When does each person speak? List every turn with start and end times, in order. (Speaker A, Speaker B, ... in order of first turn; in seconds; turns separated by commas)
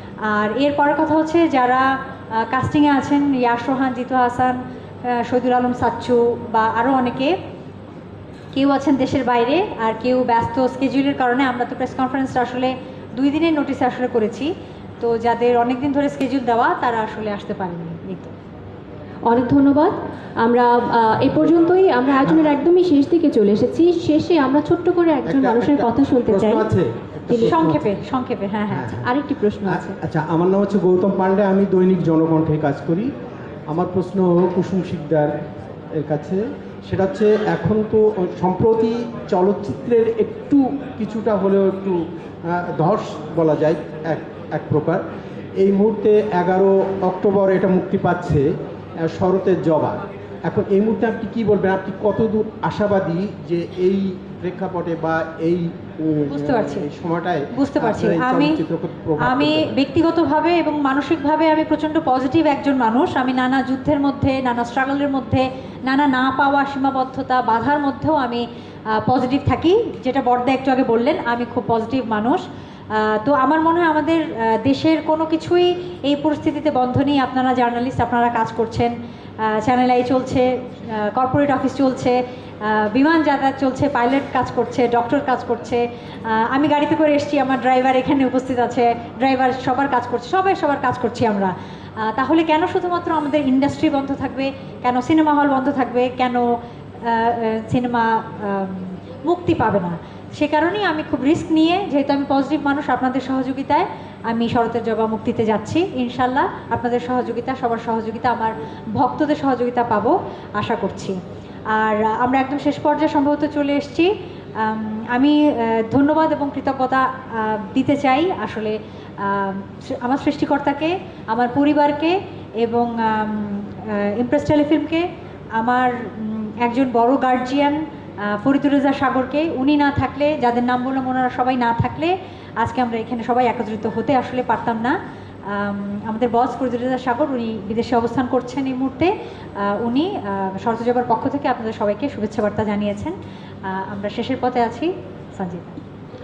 Speaker A: 0.3-7.4, Speaker A: 8.5-18.3, Speaker B: 19.3-26.7, Speaker C: 22.2-22.5, Speaker C: 25.2-27.8, Speaker B: 27.3-27.6, Speaker A: 27.3-29.0, Speaker C: 28.7-29.1, Speaker B: 29.0-30.0, Speaker C: 29.6-33.1, Speaker C: 33.7-35.3, Speaker C: 36.0-45.0, Speaker C: 45.6-48.5, Speaker C: 49.0-59.8, Speaker A: 56.3-56.9, Speaker A: 57.5-58.6, Speaker A: 59.2-68.5, Speaker A: 69.0-72.4, Speaker A: 72.9-96.5, Speaker A: 97.0-111.2, Speaker A: 111.7-125.0, Speaker A: 125.6-134.9, Speaker A: 135.5-143.2, Speaker A: 143.7-145.8